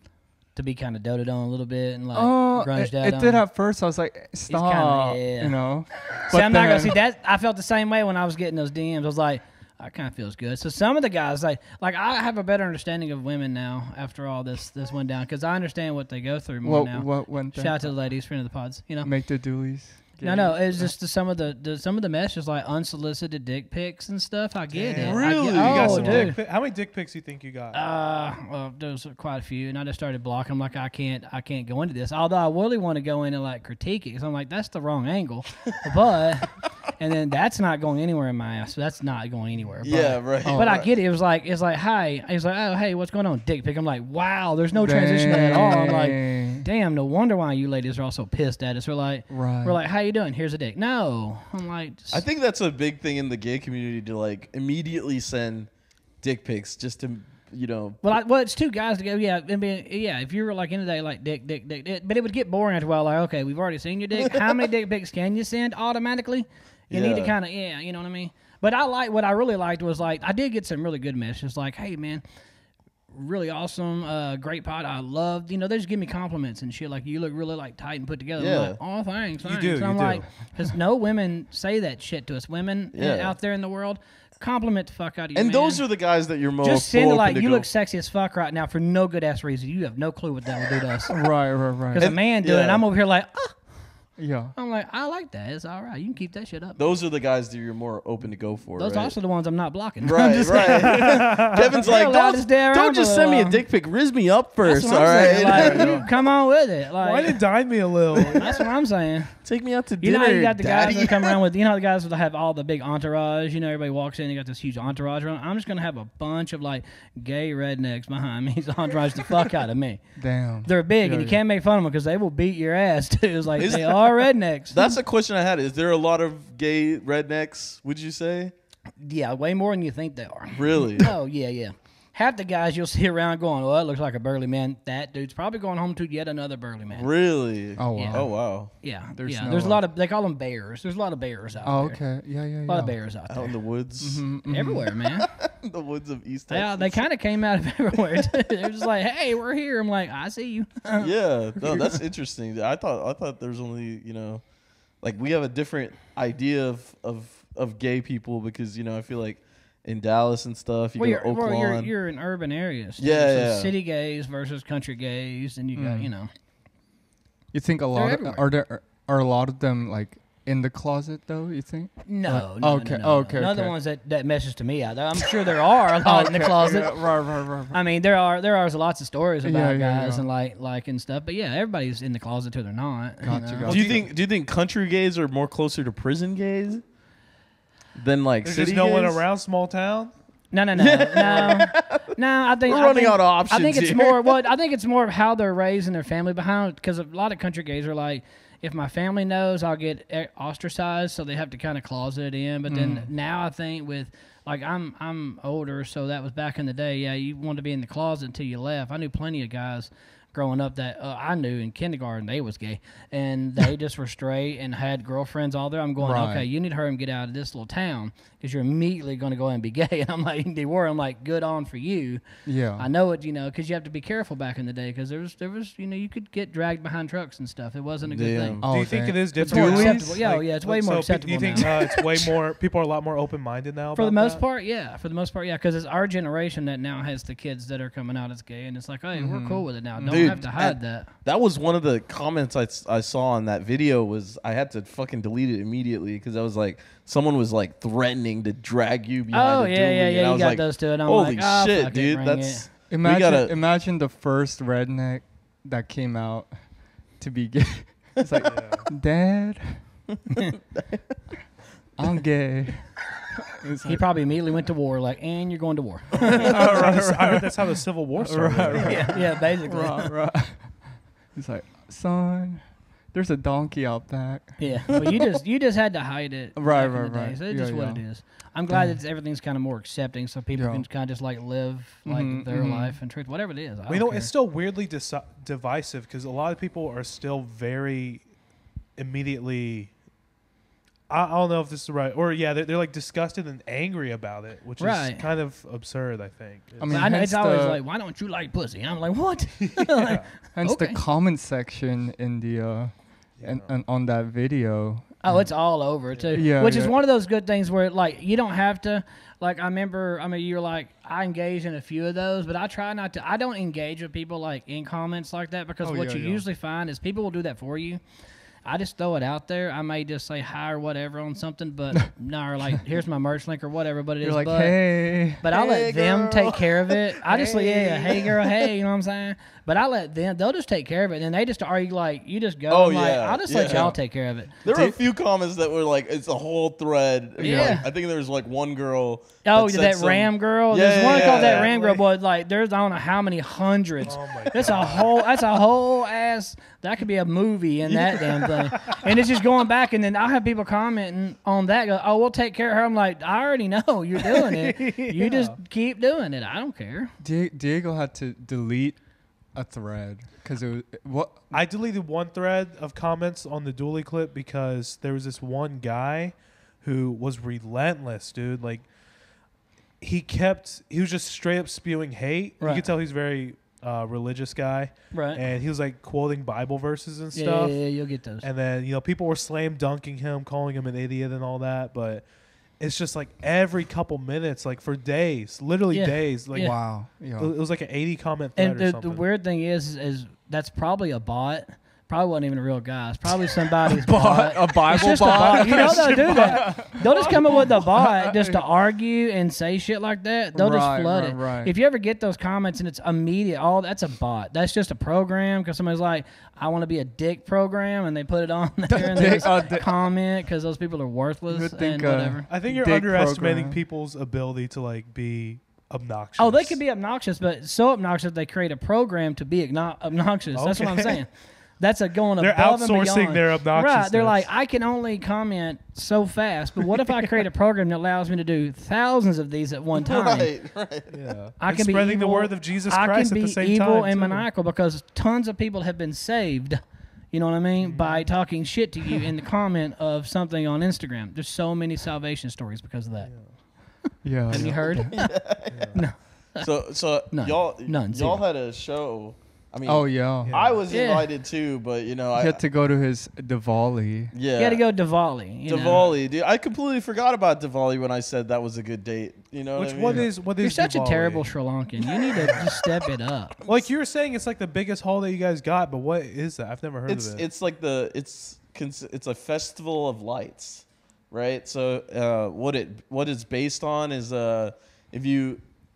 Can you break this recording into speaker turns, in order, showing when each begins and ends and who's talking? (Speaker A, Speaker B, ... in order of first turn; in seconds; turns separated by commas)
Speaker A: 0.6-3.5, Speaker B: 2.1-7.0, Speaker A: 4.5-5.7, Speaker A: 6.3-19.1, Speaker B: 16.6-18.0, Speaker B: 19.0-20.9, Speaker A: 20.2-26.4, Speaker C: 24.7-27.8, Speaker D: 25.0-26.3, Speaker A: 27.7-52.2, Speaker D: 39.8-40.9, Speaker B: 40.4-40.8, Speaker B: 44.7-46.6, Speaker B: 49.3-49.8, Speaker D: 52.1-55.7, Speaker D: 56.2-58.0, Speaker A: 58.0-72.2, Speaker D: 66.9-67.3, Speaker A: 73.1-85.8, Speaker D: 78.4-78.8, Speaker C: 79.4-80.3, Speaker D: 82.9-83.4, Speaker D: 85.3-87.7, Speaker A: 86.6-91.1, Speaker B: 91.1-92.1, Speaker A: 92.0-93.6, Speaker D: 92.0-92.8, Speaker B: 94.2-94.5, Speaker A: 94.6-96.8, Speaker D: 96.8-99.2, Speaker A: 98.8-101.1, Speaker D: 100.0-106.0, Speaker C: 100.9-101.8, Speaker A: 101.8-103.6, Speaker A: 104.6-107.7, Speaker B: 105.4-106.1, Speaker C: 107.0-108.6, Speaker A: 108.3-109.3, Speaker D: 109.4-111.4, Speaker A: 110.0-120.0, Speaker B: 120.2-121.4, Speaker A: 120.6-125.0, Speaker D: 123.6-128.5, Speaker A: 129.0-137.1, Speaker D: 130.6-131.1, Speaker D: 136.9-138.7, Speaker B: 137.8-138.4, Speaker A: 137.9-142.1, Speaker B: 139.1-139.9, Speaker B: 141.6-142.9, Speaker A: 142.7-143.6, Speaker D: 143.3-144.3, Speaker B: 144.0-144.9, Speaker A: 144.5-145.3, Speaker D: 145.3-147.1, Speaker A: 146.5-151.1, Speaker D: 151.0-154.4, Speaker A: 151.6-151.9, Speaker D: 155.0-161.9, Speaker A: 161.0-166.3, Speaker D: 163.0-163.7, Speaker B: 165.8-166.1, Speaker B: 167.5-173.8, Speaker A: 167.9-168.4, Speaker A: 172.1-183.8, Speaker B: 176.0-177.8, Speaker B: 179.4-180.3, Speaker B: 183.2-184.1, Speaker D: 183.7-186.8, Speaker C: 183.7-184.1, Speaker D: 187.9-189.2, Speaker C: 188.4-190.2, Speaker A: 190.5-222.2, Speaker D: 190.8-192.0, Speaker C: 191.2-191.6, Speaker D: 192.7-194.4, Speaker B: 202.7-203.1, Speaker B: 216.0-216.5, Speaker B: 222.4-222.9, Speaker A: 222.8-228.6, Speaker D: 228.1-228.7, Speaker B: 228.6-230.2, Speaker C: 228.7-234.4, Speaker A: 229.4-232.1, Speaker A: 233.9-241.1, Speaker B: 239.1-240.4, Speaker D: 240.1-253.5, Speaker A: 249.3-252.7, Speaker B: 252.9-260.0, Speaker C: 258.4-258.9, Speaker B: 262.0-263.0, Speaker B: 263.6-264.1, Speaker A: 263.9-266.6, Speaker C: 266.3-269.4, Speaker B: 266.3-275.2, Speaker A: 268.8-270.1, Speaker A: 274.6-284.3, Speaker B: 276.6-278.1, Speaker B: 278.7-279.0, Speaker B: 280.6-280.9, Speaker B: 282.1-283.0, Speaker C: 283.9-288.3, Speaker C: 289.0-289.9, Speaker C: 291.1-297.1, Speaker A: 294.8-295.3, Speaker B: 296.8-297.8, Speaker A: 296.9-301.0, Speaker C: 299.9-300.3, Speaker B: 300.5-305.8, Speaker C: 303.4-303.7, Speaker A: 305.2-318.0, Speaker C: 306.1-306.6, Speaker B: 306.3-307.0, Speaker B: 315.8-316.4, Speaker A: 318.6-334.5, Speaker B: 324.2-325.4, Speaker D: 325.5-327.6, Speaker C: 327.3-328.1, Speaker D: 328.2-328.4, Speaker D: 332.7-334.0, Speaker D: 334.6-341.7, Speaker B: 334.6-334.9, Speaker B: 337.4-337.9, Speaker A: 337.4-337.9, Speaker A: 339.4-357.1, Speaker C: 341.0-342.0, Speaker C: 344.1-345.2, Speaker D: 347.9-348.5, Speaker C: 354.3-355.6, Speaker B: 357.2-361.5, Speaker C: 361.5-368.9, Speaker C: 370.0-389.2, Speaker A: 372.6-372.9, Speaker A: 375.1-375.4, Speaker A: 377.3-378.5, Speaker A: 385.9-386.8, Speaker B: 386.5-387.5, Speaker A: 388.6-412.5, Speaker D: 394.1-395.9, Speaker B: 394.7-398.7, Speaker C: 395.5-397.6, Speaker B: 400.5-401.7, Speaker B: 408.9-410.1, Speaker B: 411.5-413.8, Speaker C: 412.5-416.8, Speaker A: 416.4-430.5, Speaker C: 420.5-421.2, Speaker C: 422.4-424.5, Speaker D: 429.9-431.2, Speaker C: 431.1-434.5, Speaker A: 431.6-436.8, Speaker A: 437.3-443.3, Speaker C: 437.8-438.3, Speaker C: 443.2-443.6, Speaker B: 444.2-445.2, Speaker D: 444.5-446.0, Speaker A: 444.5-445.3, Speaker C: 445.7-446.0, Speaker A: 445.9-446.7, Speaker D: 446.6-452.6, Speaker A: 447.3-448.4, Speaker B: 449.9-450.6, Speaker C: 450.4-450.8, Speaker A: 450.9-451.3, Speaker B: 452.4-454.3, Speaker D: 454.3-454.8, Speaker A: 454.6-456.0, Speaker D: 455.7-460.3, Speaker C: 459.8-461.5, Speaker A: 460.6-463.6, Speaker C: 462.4-462.8, Speaker C: 463.7-467.4, Speaker D: 467.1-475.6